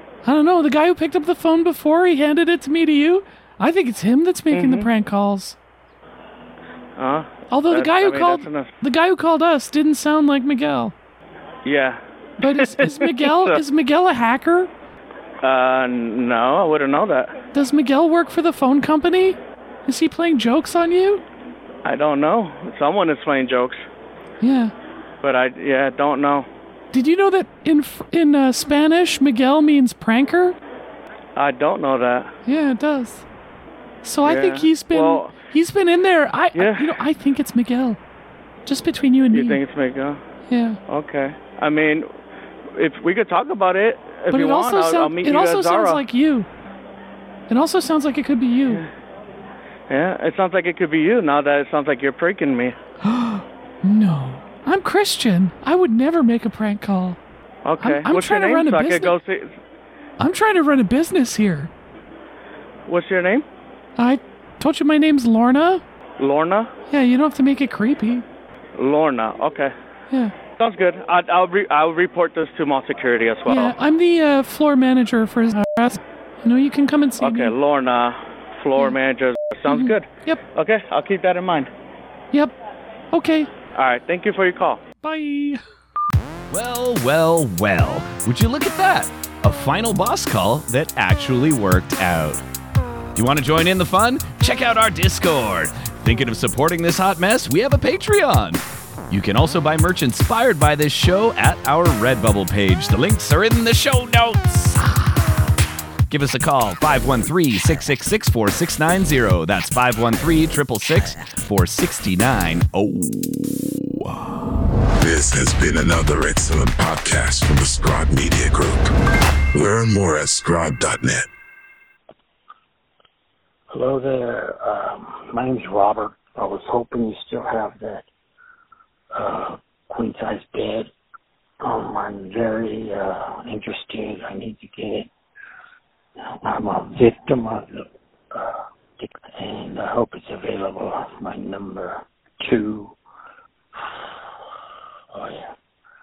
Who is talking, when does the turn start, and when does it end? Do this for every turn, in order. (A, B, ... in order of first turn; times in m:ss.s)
0:00.2-0:05.6 A
0:04.5-0:04.9 B
0:07.0-0:08.7 B
0:07.5-0:10.9 A
0:11.6-0:13.6 B
0:12.4-0:14.7 A
0:15.4-0:17.3 B
0:17.5-0:21.2 A
0:21.8-0:23.8 B
0:24.4-0:24.7 A
0:25.2-0:26.5 B
0:26.9-0:30.6 A
0:31.4-0:32.3 B
0:32.4-0:33.2 A
0:34.0-0:38.0 A
0:34.2-0:35.3 B
0:36.5-0:37.0 B
0:38.6-0:39.6 A
0:39.3-0:40.2 B
0:40.5-0:40.8 A
0:40.9-0:42.1 B
0:42.7-0:46.0 B
0:44.3-0:46.5 A
0:47.5-0:48.8 A
0:49.9-0:52.7 B
0:53.0-0:57.2 A
0:57.6-0:59.5 B
0:57.8-0:59.2 A
1:00.2-1:01.7 A
1:02.9-1:03.4 B
1:04.0-1:05.8 A
1:06.2-1:06.7 B
1:06.9-1:08.2 A
1:08.8-1:09.7 B
1:10.6-1:13.8 B
1:13.4-1:17.5 A
1:17.2-1:21.7 B
1:19.7-1:20.4 A
1:23.1-1:23.5 A
1:23.7-1:24.8 B
1:25.0-1:25.6 A
1:26.5-1:32.4 C
1:33.1-1:45.0 C
1:46.1-1:54.0 C
1:55.0-1:58.9 D
1:59.5-2:01.3 D
2:03.7-2:08.0 E
2:09.1-2:10.9 E
2:11.6-2:15.1 E
2:16.3-2:23.0 E
2:25.1-2:25.5 E